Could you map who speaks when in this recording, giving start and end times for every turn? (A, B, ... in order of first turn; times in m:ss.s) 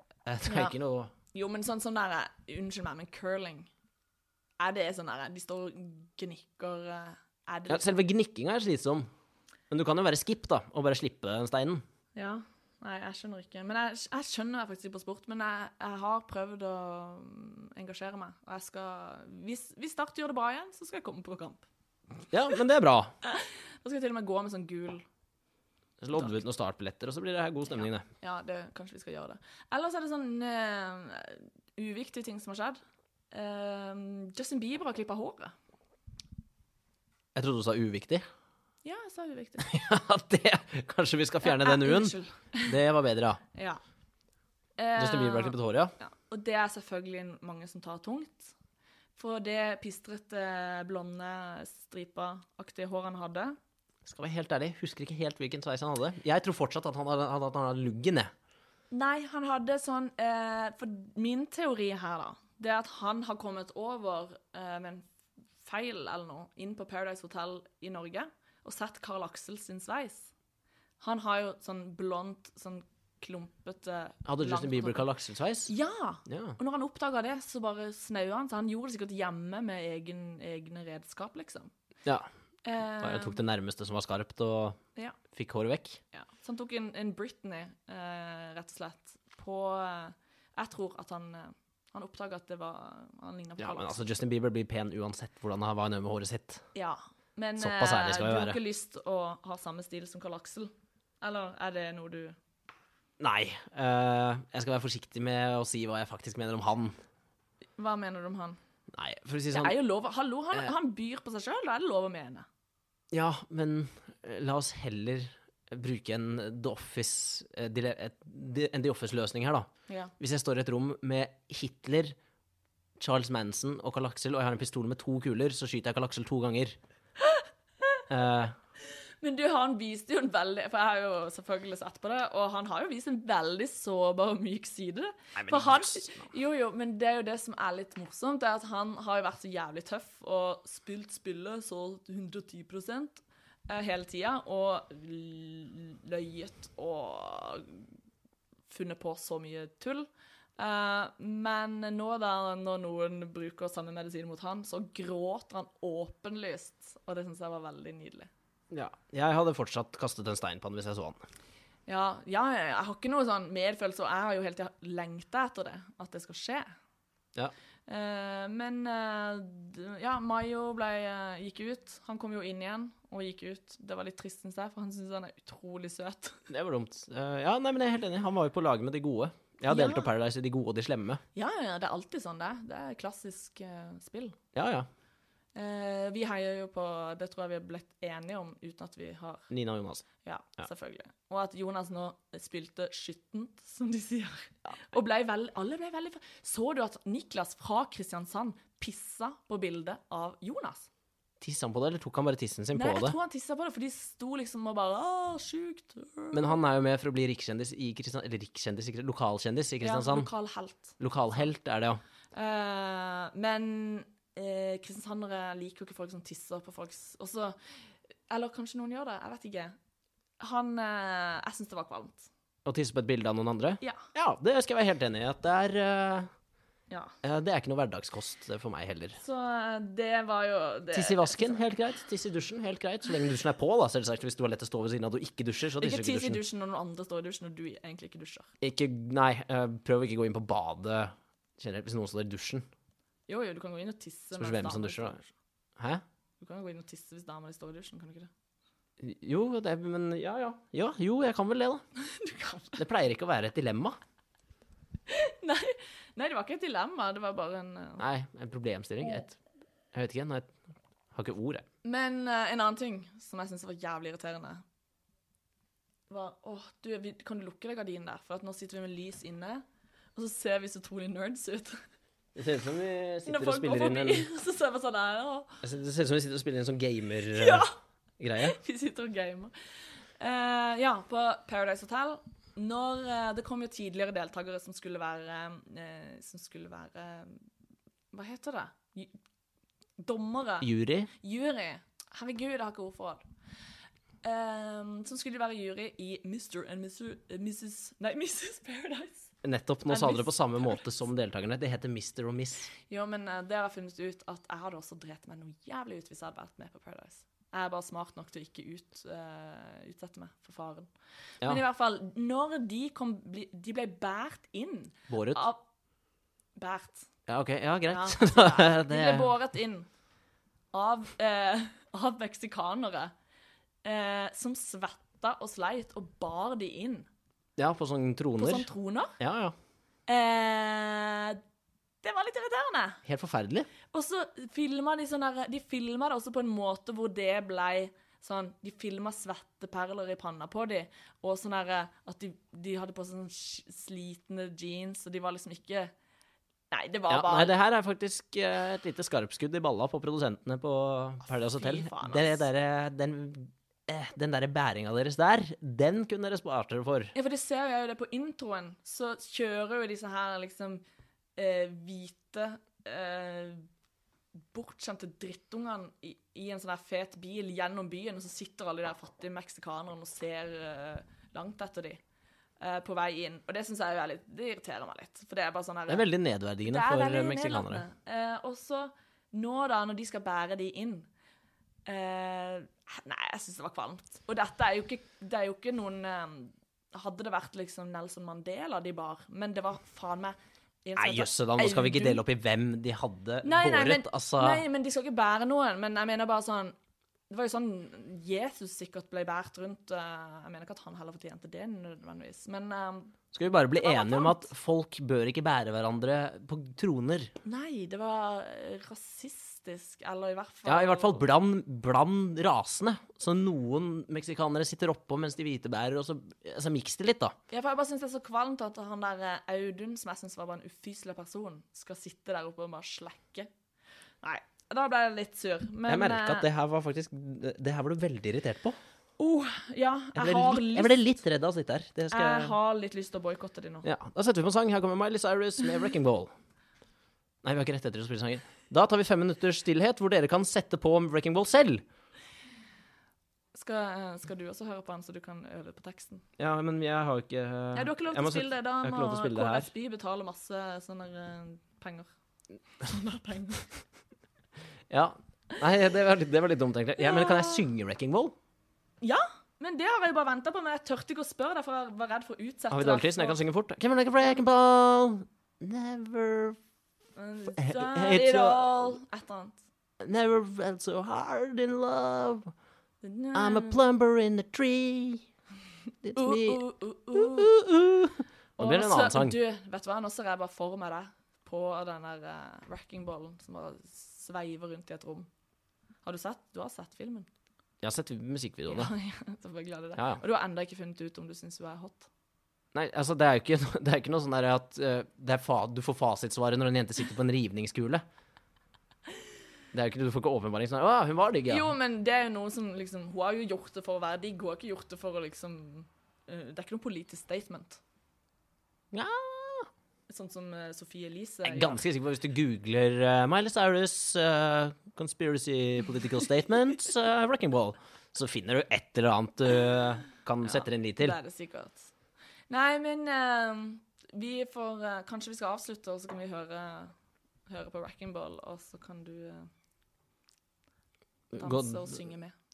0:00.3-0:01.1 A
0:00.5-0:00.7 B
0:01.3-0:03.7 B
0:04.6-0:08.0 B
0:07.7-0:09.1 A
0:09.7-0:11.8 A
0:12.2-0:21.7 B
0:22.3-0:23.1 A
0:23.2-0:25.0 B
0:26.0-0:28.1 A
0:26.1-0:26.4 B
0:28.2-0:32.8 B
0:33.3-0:35.5 B
0:37.4-0:38.3 A
0:38.8-0:39.7 B
0:39.6-0:43.4 A
0:41.4-0:42.8 B
0:43.5-0:43.8 B
0:44.8-0:48.5 B
0:45.0-0:45.9 A
0:49.2-0:53.6 B
0:54.0-0:58.3 A
0:58.9-1:05.1 B
1:05.6-1:10.3 B
1:11.0-1:15.1 B
1:14.3-1:15.7 A
1:15.7-1:21.7 B
1:16.3-1:16.6 A
1:22.6-1:23.4 B
1:23.0-1:24.8 A
1:25.3-1:26.0 A
1:26.1-1:34.0 B
1:33.6-1:36.6 A
1:36.8-1:42.4 B
1:37.6-1:38.6 A
1:43.2-1:47.0 A
1:47.8-1:48.6 B
1:48.9-1:49.8 A
1:49.5-1:52.5 B
1:53.1-2:02.2 A
1:59.9-2:00.1 B
2:03.0-2:06.8 A
2:07.2-2:07.4 B
2:08.1-2:08.6 A
2:09.2-2:27.9 B
2:15.4-2:16.3 A
2:28.7-2:38.3 B
2:38.7-2:41.2 A
2:41.9-2:46.8 B
2:47.9-2:56.5 B
2:56.5-3:01.2 A
2:59.7-3:00.1 B
3:01.4-3:04.4 B
3:04.5-3:04.9 A
3:05.6-3:09.5 B
3:09.5-3:10.0 A
3:10.2-3:20.9 B
3:21.4-3:23.2 A
3:22.7-3:26.6 B
3:26.3-3:30.3 A
3:29.8-3:31.0 B
3:31.0-3:32.0 A
3:32.3-3:37.6 B
3:38.3-3:39.8 B
3:40.4-3:42.3 B
3:42.7-3:46.3 A
3:46.9-3:47.2 B
3:47.2-3:49.2 A
3:49.2-3:51.6 B
3:50.9-3:56.4 A
3:55.8-3:58.5 B
3:58.6-4:02.6 A
4:03.3-4:05.3 B
4:04.4-4:05.2 A
4:05.8-4:06.0 A
4:06.4-4:08.3 B
4:09.0-4:11.8 A
4:12.0-4:12.8 B
4:12.8-4:14.0 A
4:15.1-4:18.0 B
4:18.0-4:19.4 A
4:19.9-4:20.6 A
4:21.1-4:21.6 A
4:21.8-4:24.6 B
4:26.1-4:31.8 B
4:32.4-4:34.3 A
4:33.3-4:35.6 B
4:35.6-4:38.6 A
4:37.3-4:37.7 B
4:38.4-4:39.6 B
4:40.2-4:47.4 B
4:48.1-4:49.1 B
4:50.0-4:53.3 B
4:50.6-4:51.1 A
4:54.2-4:59.3 B
4:59.4-5:02.7 A
4:59.9-5:00.8 B
5:02.9-5:10.9 B
5:11.4-5:15.6 B
5:15.1-5:15.5 A
5:16.6-5:17.1 B
5:17.3-5:19.3 A
5:17.9-5:19.9 B
5:20.7-5:23.1 B
5:23.8-5:27.1 B
5:27.6-5:29.6 A
5:28.4-5:29.2 B
5:30.1-5:31.4 B
5:32.0-5:33.0 B
5:33.0-5:33.7 A
5:33.9-5:45.9 B
5:46.7-5:47.5 B
5:47.1-5:57.1 A
5:51.3-5:52.4 B
5:57.2-6:00.8 B
6:01.4-6:03.7 B
6:04.5-6:12.0 B
6:12.6-6:16.1 B
6:15.9-6:17.9 A
6:16.6-6:21.1 B
6:21.9-6:32.2 B
6:31.0-6:34.6 A
6:33.4-6:36.8 B
6:37.3-6:43.2 B
6:43.3-6:47.3 A
6:43.8-6:44.5 B
6:47.4-6:51.2 B
6:50.7-6:57.4 A
6:57.5-7:03.5 B
7:04.2-7:06.5 B
7:05.9-7:08.8 A
7:09.2-7:11.1 B
7:10.2-7:12.6 A
7:12.1-7:13.9 B
7:13.8-7:16.3 A
7:17.4-7:21.8 A
7:23.5-7:26.2 B
7:26.4-7:29.7 A
7:27.7-7:32.1 B
7:32.8-7:33.7 B
7:34.9-7:38.4 A
7:37.0-7:37.6 B
7:39.0-7:43.4 B
7:42.7-7:46.6 A
7:47.2-7:49.6 B
7:47.5-7:49.0 A
7:50.0-7:52.5 A
7:53.0-7:53.8 B
7:53.3-7:55.3 A
7:56.0-7:59.4 A
7:56.2-7:57.5 B
7:58.6-8:05.3 B
8:06.0-8:07.3 B
8:07.8-8:08.9 A
8:08.7-8:12.1 B
8:10.0-8:10.2 A
8:12.7-8:18.0 A
8:19.7-8:21.7 A
8:21.5-8:27.8 B
8:28.9-8:29.7 A
8:30.1-8:31.8 B
8:31.4-8:41.2 A
8:40.4-8:41.9 B
8:42.5-8:46.9 B
8:47.5-8:49.5 B
8:51.3-8:52.0 A
8:51.4-8:52.4 B